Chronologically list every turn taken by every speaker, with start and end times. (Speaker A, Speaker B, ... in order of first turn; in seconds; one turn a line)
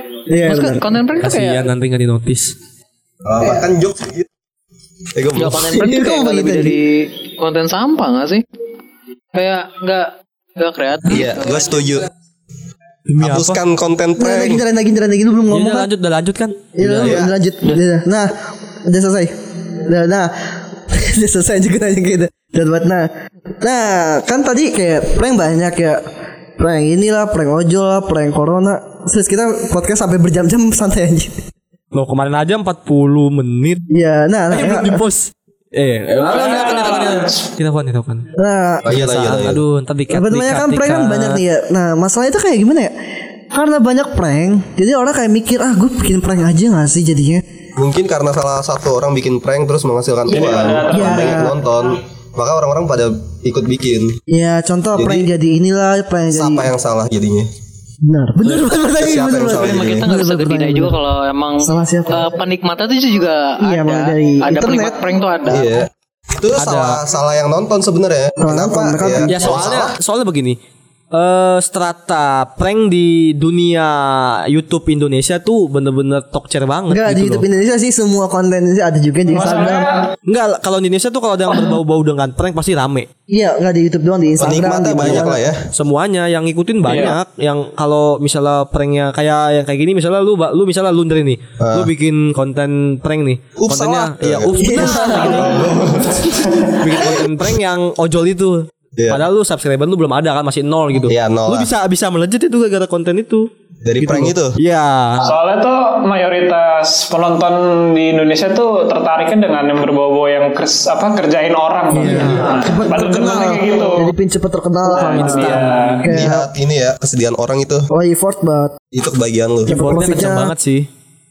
Speaker A: 0.3-0.9
Speaker B: 0.4-1.7
Speaker C: 1.2-2.5
Speaker D: 3.2-4.3
Speaker D: 5.1-5.8
Speaker B: 5.4-8.4
Speaker A: 5.7-6.8
Speaker B: 9.3-11.6
Speaker D: 11.1-12.1
Speaker C: 13.1-13.6
Speaker D: 13.2-14.6
Speaker A: 14.2-15.9
Speaker C: 15.5-17.2
Speaker A: 16.8-18.3
Speaker D: 16.9-17.3
Speaker A: 18.9-23.1
Speaker A: 23.6-26.0
Speaker A: 26.6-31.4
Speaker C: 31.9-33.8
Speaker A: 33.9-35.0
Speaker C: 34.5-38.3
Speaker E: 36.3-37.4
Speaker A: 38.4-38.9
Speaker D: 38.8-39.6
Speaker C: 38.9-41.4
Speaker A: 40.1-42.9
Speaker A: 43.5-47.4
Speaker D: 47.8-54.2
Speaker E: 50.3-51.5
Speaker A: 50.9-51.6
Speaker A: 54.3-56.7
Speaker D: 55.0-55.3
Speaker D: 56.3-57.5
Speaker A: 58.0-61.0
Speaker D: 58.9-60.1
Speaker B: 59.4-65.8
Speaker A: 61.6-62.3
Speaker A: 63.6-65.0
Speaker D: 65.5-69.9
Speaker C: 66.5-67.0
Speaker A: 68.4-69.7
Speaker C: 69.3-70.6
Speaker C: 71.1-77.4
Speaker A: 76.9-79.9
Speaker E: 79.3-80.1
Speaker C: 80.3-83.1
Speaker A: 83.3-85.4
Speaker D: 84.4-85.7
Speaker C: 85.7-95.6
Speaker E: 86.8-87.2
Speaker D: 91.6-91.9
Speaker D: 93.6-97.2
Speaker A: 94.6-96.4
Speaker C: 96.7-105.3
Speaker D: 99.0-99.2
Speaker D: 101.0-101.7
Speaker D: 103.8-104.5
Speaker E: 105.2-114.1
Speaker A: 111.9-116.5
Speaker E: 114.9-116.0
Speaker C: 115.1-115.9
Speaker D: 116.1-117.9
Speaker A: 117.9-118.8
Speaker D: 118.9-119.8
Speaker A: 119.7-120.5
Speaker C: 119.7-120.9